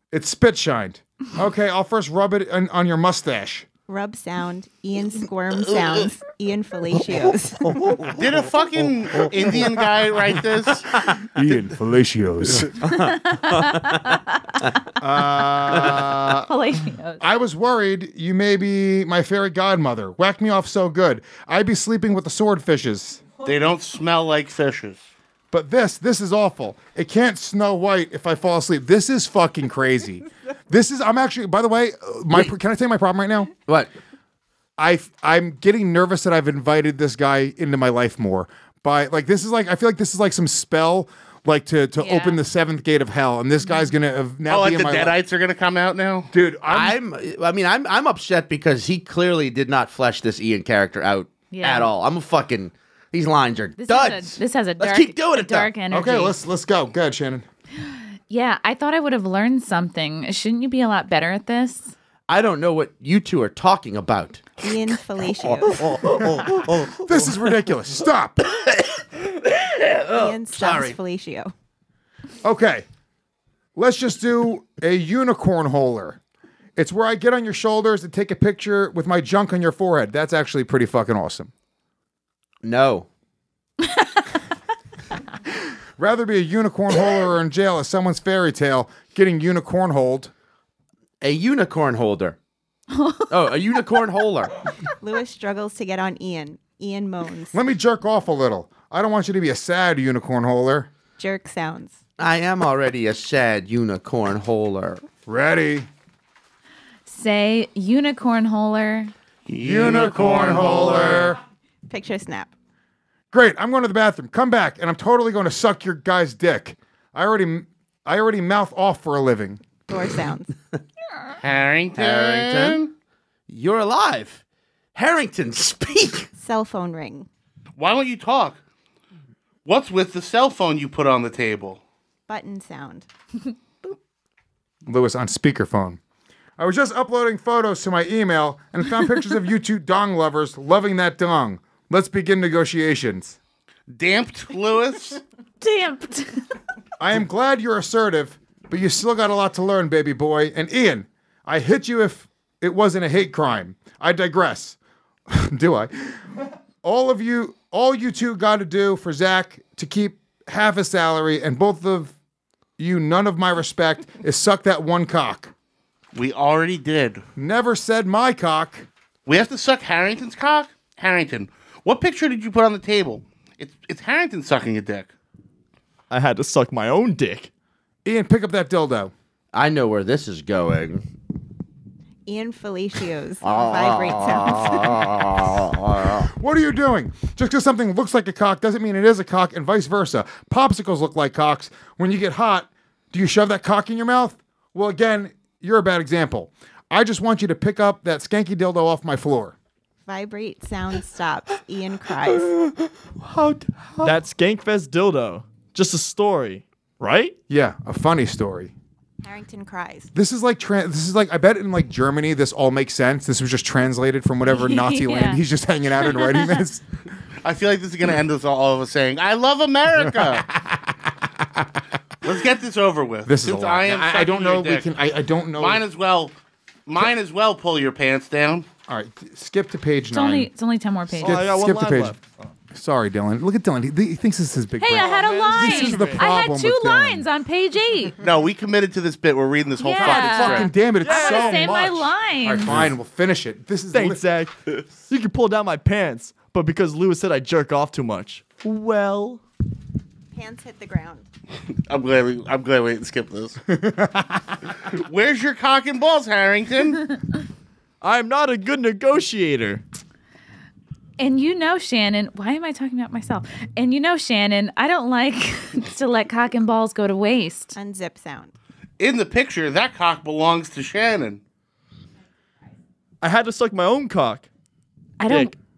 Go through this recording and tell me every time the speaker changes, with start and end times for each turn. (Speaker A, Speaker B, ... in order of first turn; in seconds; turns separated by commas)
Speaker A: 0.1-3.6, Speaker B: 3.9-8.0, Speaker C: 8.2-10.9, Speaker A: 11.2-12.7, Speaker D: 12.8-14.7, Speaker A: 15.0-16.5, Speaker D: 16.5-17.2, Speaker A: 17.2-23.2, Speaker C: 23.4-25.0, Speaker A: 25.5-33.5, Speaker A: 34.8-45.1, Speaker D: 42.0-42.4, Speaker C: 44.5-46.3, Speaker A: 46.3-47.0, Speaker E: 46.7-55.7, Speaker D: 51.5-51.9, Speaker D: 53.8-56.3, Speaker A: 55.9-57.4, Speaker D: 57.8-62.0, Speaker E: 62.3-64.8, Speaker B: 64.6-65.8, Speaker E: 65.3-67.6, Speaker A: 67.0-68.4, Speaker E: 68.7-71.0, Speaker B: 70.1-71.5, Speaker A: 72.4-72.8, Speaker A: 73.8-76.2, Speaker A: 76.8-81.5, Speaker E: 82.6-83.1, Speaker A: 86.0-90.3, Speaker E: 91.2-92.4, Speaker D: 92.9-93.2, Speaker E: 93.3-94.5, Speaker B: 95.0-97.6, Speaker A: 97.5-100.9, Speaker B: 101.2-102.0, Speaker E: 102.2-105.0, Speaker A: 105.2-105.9, Speaker D: 107.1-109.1, Speaker C: 109.5-111.1, Speaker A: 109.6-111.4, Speaker B: 111.9-112.5, Speaker A: 113.3-119.6, Speaker B: 119.9-120.5, Speaker C: 121.4-122.9, Speaker E: 122.0-122.8, Speaker E: 123.5-124.4, Speaker E: 124.9-126.3, Speaker B: 126.4-127.3, Speaker C: 127.8-128.6, Speaker C: 129.7-131.8, Speaker B: 132.3-133.1, Speaker A: 134.8-136.0, Speaker A: 136.6-143.4, Speaker C: 143.9-145.2, Speaker D: 145.6-146.4, Speaker A: 147.0-154.8, Speaker A: 155.3-162.1, Speaker A: 162.8-165.5, Speaker C: 166.1-167.2, Speaker A: 167.3-168.9, Speaker C: 169.2-175.1, Speaker F: 176.1-177.5, Speaker A: 178.0-179.1, Speaker E: 179.5-181.0, Speaker B: 182.2-185.1, Speaker E: 183.4-186.2, Speaker A: 186.1-199.5, Speaker B: 200.0-202.5, Speaker F: 203.5-207.3, Speaker A: 207.5-208.7, Speaker B: 209.2-210.1, Speaker A: 210.1-216.8, Speaker D: 214.4-215.4, Speaker D: 216.0-216.6, Speaker C: 217.4-220.4, Speaker A: 220.5-221.7, Speaker C: 222.2-224.9, Speaker A: 223.2-225.8, Speaker C: 225.5-226.3, Speaker C: 226.9-228.7, Speaker A: 228.9-230.5, Speaker D: 230.1-231.5, Speaker A: 231.2-232.2, Speaker F: 231.2-232.4, Speaker A: 232.7-237.2, Speaker D: 234.8-238.1, Speaker F: 234.9-236.2, Speaker C: 238.2-240.7, Speaker D: 239.8-242.8, Speaker A: 240.0-244.2, Speaker F: 241.0-241.9, Speaker F: 243.9-249.4, Speaker B: 250.3-251.2, Speaker C: 251.8-253.6, Speaker A: 253.7-254.4, Speaker C: 254.9-257.0, Speaker F: 258.0-259.8, Speaker D: 261.2-267.7, Speaker B: 267.8-268.5, Speaker C: 269.0-271.4, Speaker F: 273.2-274.5, Speaker D: 275.2-275.6, Speaker F: 275.3-275.5